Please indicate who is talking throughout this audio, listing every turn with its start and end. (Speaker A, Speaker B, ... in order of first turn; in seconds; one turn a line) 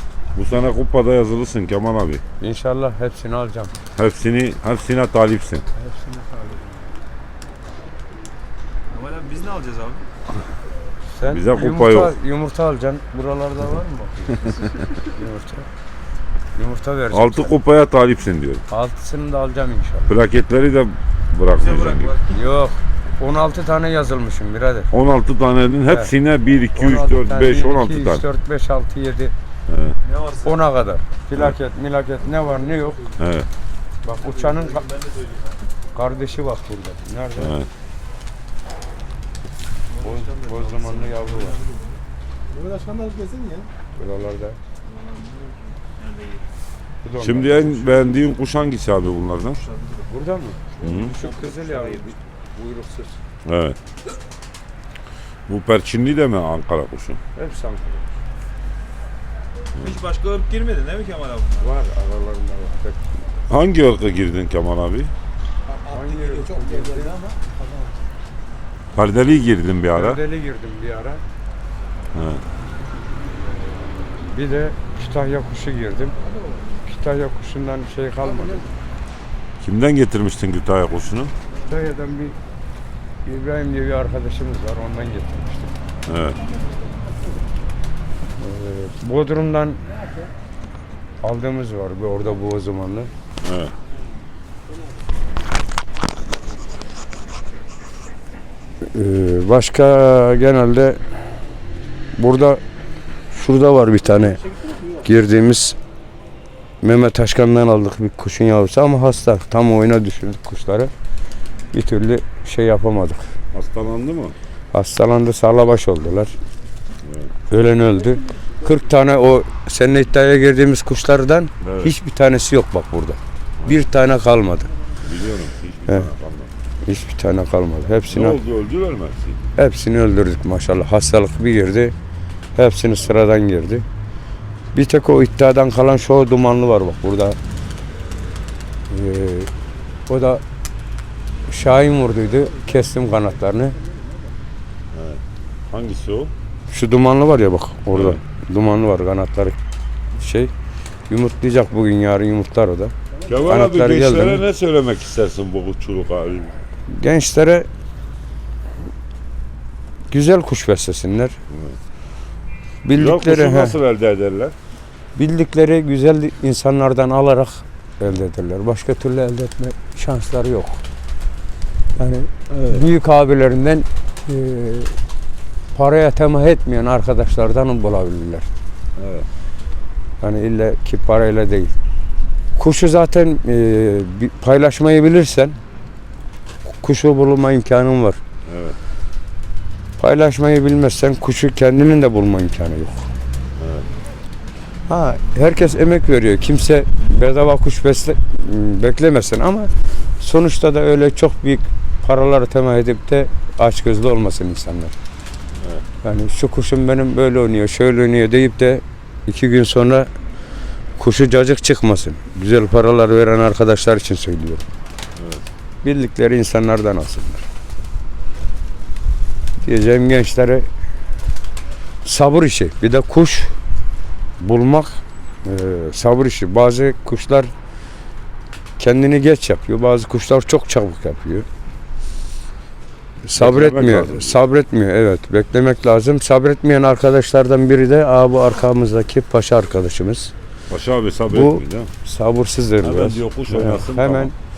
Speaker A: 0.3-2.2
Speaker B: 2.4-3.8
Speaker A: 4.0-5.7
Speaker B: 5.7-6.8
Speaker C: 8.9-10.1
Speaker B: 11.1-15.7
Speaker A: 11.3-12.1
Speaker B: 16.6-17.5
Speaker A: 17.1-18.6
Speaker B: 18.7-20.2
Speaker A: 20.1-22.1
Speaker C: 21.5-22.4
Speaker B: 22.3-24.9
Speaker A: 24.9-28.2
Speaker B: 25.9-26.1
Speaker B: 26.8-29.3
Speaker A: 29.7-30.0
Speaker C: 30.0-30.7
Speaker B: 30.4-33.2
Speaker A: 33.2-33.5
Speaker B: 34.0-34.9
Speaker C: 34.1-35.5
Speaker B: 35.9-37.6
Speaker A: 37.4-37.7
Speaker C: 39.9-42.0
Speaker B: 40.0-41.6
Speaker D: 42.5-43.7
Speaker B: 44.0-44.6
Speaker C: 44.9-46.4
Speaker B: 47.0-48.3
Speaker A: 47.2-49.6
Speaker C: 49.6-50.1
Speaker B: 50.1-53.2
Speaker C: 50.8-52.1
Speaker A: 50.8-51.2
Speaker A: 53.5-53.8
Speaker A: 55.5-57.2
Speaker B: 57.4-58.1
Speaker A: 59.8-60.0
Speaker C: 59.8-61.8
Speaker B: 61.6-63.2
Speaker A: 63.5-65.1
Speaker D: 65.7-68.0
Speaker B: 65.9-67.2
Speaker A: 68.9-70.2
Speaker B: 69.9-71.2
Speaker A: 72.1-72.4
Speaker B: 74.1-76.2
Speaker B: 76.8-78.7
Speaker A: 79.6-81.3
Speaker B: 81.7-82.4
Speaker B: 83.2-85.8
Speaker A: 86.0-86.4
Speaker B: 88.4-89.8
Speaker B: 91.2-93.1
Speaker A: 93.4-93.7
Speaker B: 98.8-101.0
Speaker B: 102.2-102.6
Speaker B: 103.3-105.8
Speaker B: 106.8-110.9
Speaker B: 111.7-113.4
Speaker A: 113.5-114.4
Speaker B: 114.7-116.4
Speaker A: 117.0-117.3
Speaker B: 117.5-124.7
Speaker A: 121.6-122.0
Speaker A: 125.0-126.5
Speaker B: 126.8-128.4
Speaker A: 128.1-129.4
Speaker B: 129.6-131.9
Speaker B: 132.6-133.9
Speaker B: 134.7-137.4
Speaker B: 138.9-139.5
Speaker B: 140.1-140.4
Speaker B: 141.5-143.8
Speaker A: 144.9-146.3
Speaker B: 146.7-149.6
Speaker A: 147.9-148.2
Speaker B: 150.1-150.5
Speaker B: 151.1-154.4
Speaker A: 153.2-156.6
Speaker B: 156.9-157.7
Speaker B: 160.1-161.4
Speaker A: 161.5-161.8
Speaker B: 162.8-163.8
Speaker A: 162.9-164.6
Speaker B: 165.2-170.8
Speaker B: 172.0-175.0
Speaker B: 175.7-178.5
Speaker A: 179.0-179.3
Speaker B: 180.2-181.7
Speaker B: 182.6-185.6
Speaker B: 186.7-188.2
Speaker A: 188.4-188.8
Speaker B: 190.0-193.1
Speaker A: 193.6-193.9
Speaker B: 194.9-204.9
Speaker A: 205.6-205.8
Speaker B: 206.0-210.1
Speaker B: 211.0-214.7
Speaker A: 215.2-215.4
Speaker B: 215.8-217.4
Speaker B: 219.6-220.7
Speaker B: 222.0-223.6
Speaker B: 224.4-227.5
Speaker B: 228.8-231.5
Speaker B: 233.2-240.3
Speaker A: 233.4-234.4
Speaker A: 240.7-241.9
Speaker B: 241.3-244.3
Speaker A: 242.8-244.3